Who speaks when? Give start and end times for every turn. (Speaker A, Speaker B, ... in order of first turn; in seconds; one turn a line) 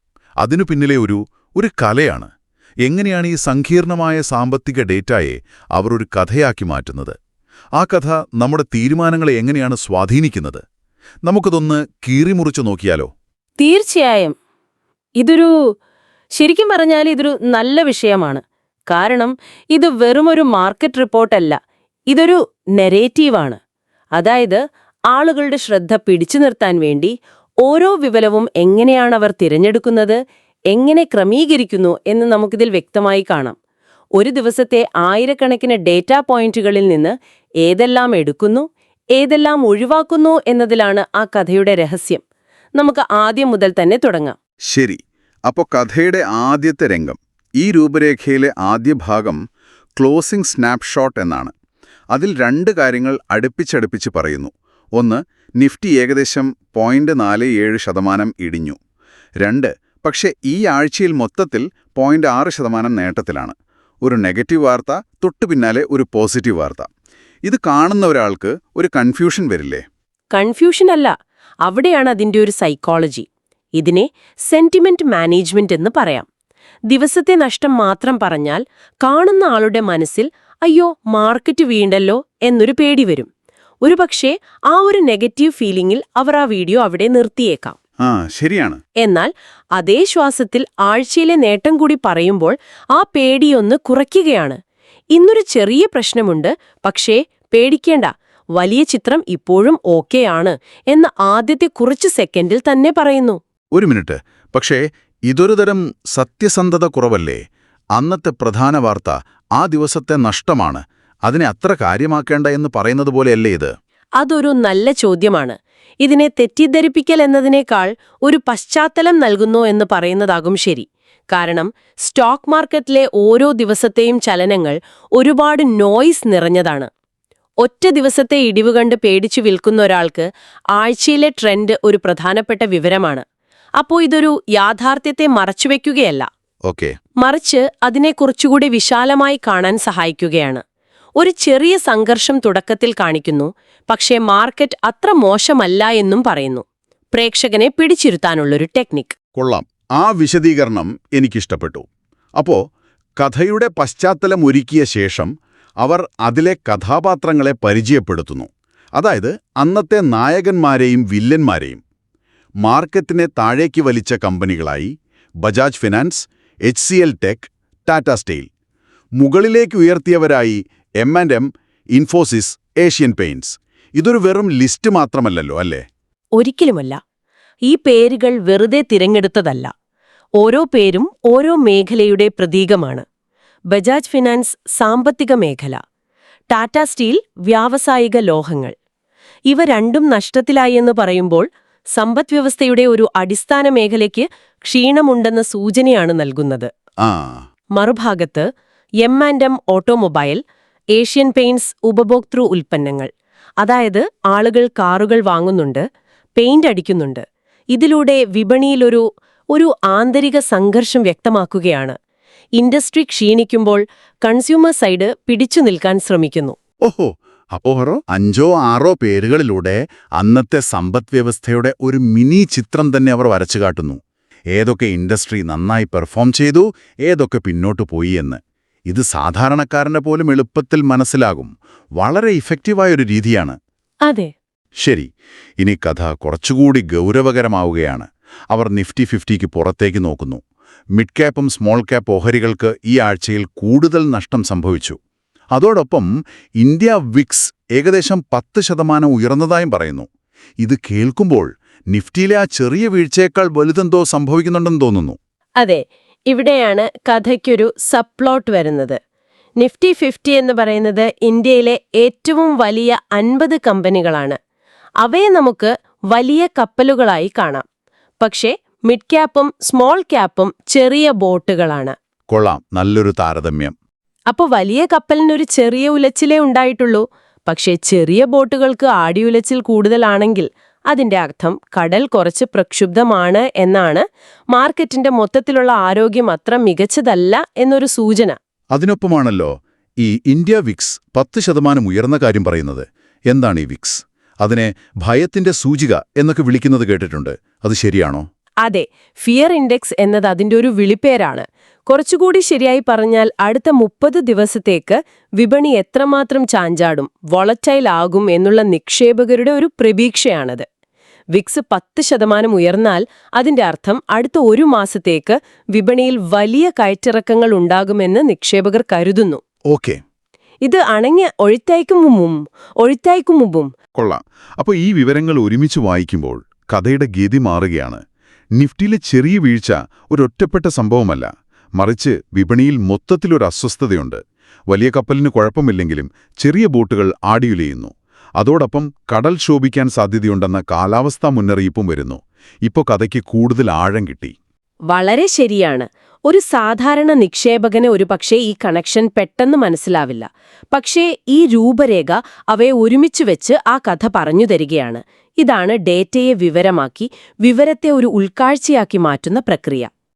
Speaker A: 0.4-2.3
Speaker A: 2.9-7.2
Speaker A: 7.8-10.6
Speaker A: 11.3-13.1
Speaker B: 13.6-14.4
Speaker B: 15.2-15.6
Speaker B: 16.3-21.6
Speaker B: 22.1-23.6
Speaker B: 24.2-30.2
Speaker B: 30.7-33.6
Speaker B: 34.2-42.2
Speaker B: 42.8-44.4
Speaker A: 44.7-49.4
Speaker A: 50.0-51.5
Speaker A: 52.1-58.8
Speaker A: 59.4-66.9
Speaker A: 67.5-69.8
Speaker B: 70.3-71.1
Speaker B: 71.7-76.3
Speaker B: 76.9-83.3
Speaker B: 83.8-87.8
Speaker A: 88.0-88.8
Speaker B: 89.0-94.6
Speaker B: 95.1-103.4
Speaker A: 103.7-107.4
Speaker A: 108.0-113.7
Speaker B: 114.2-126.9
Speaker B: 127.6-133.2
Speaker B: 133.8-136.3
Speaker A: 136.7-136.9
Speaker B: 137.2-140.6
Speaker B: 141.2-149.2
Speaker A: 149.4-151.9
Speaker A: 152.4-152.6
Speaker A: 153.2-161.8
Speaker A: 162.7-164.9
Speaker A: 165.4-168.5
Speaker A: 169.2-175.9
Speaker B: 176.4-177.0
Speaker B: 177.7-179.7
Speaker B: 180.4-183.1
Speaker B: 183.7-185.8
Speaker B: 186.5-188.8
Speaker B: 189.5-196.7
Speaker A: 197.0-197.4
Speaker B: 197.8-198.5
Speaker B: 199.0-200.4
Speaker B: 201.0-203.1
Speaker B: 203.6-205.8
Speaker B: 206.4-212.0
Speaker B: 212.6-216.6
Speaker A: 216.8-224.0
Speaker A: 224.6-233.6
Speaker B: 234.1-234.3
Speaker A: 234.8-235.1
Speaker A: 235.6-240.4
Speaker A: 241.0-245.0
Speaker A: 245.5-250.1
Speaker A: 250.6-255.2
Speaker B: 255.6-259.0
Speaker B: 259.6-264.4
Speaker B: 265.0-267.6
Speaker B: 268.2-271.9
Speaker A: 272.3-273.8
Speaker B: 274.3-288.4
Speaker A: 288.7-298.3
Speaker B: 298.6-310.6
Speaker B: 311.4-319.4
Speaker A: 319.7-320.0
Speaker B: 320.7-323.7
Speaker A: 324.0-328.0
Speaker A: 328.6-344.4
Speaker B: 344.9-359.9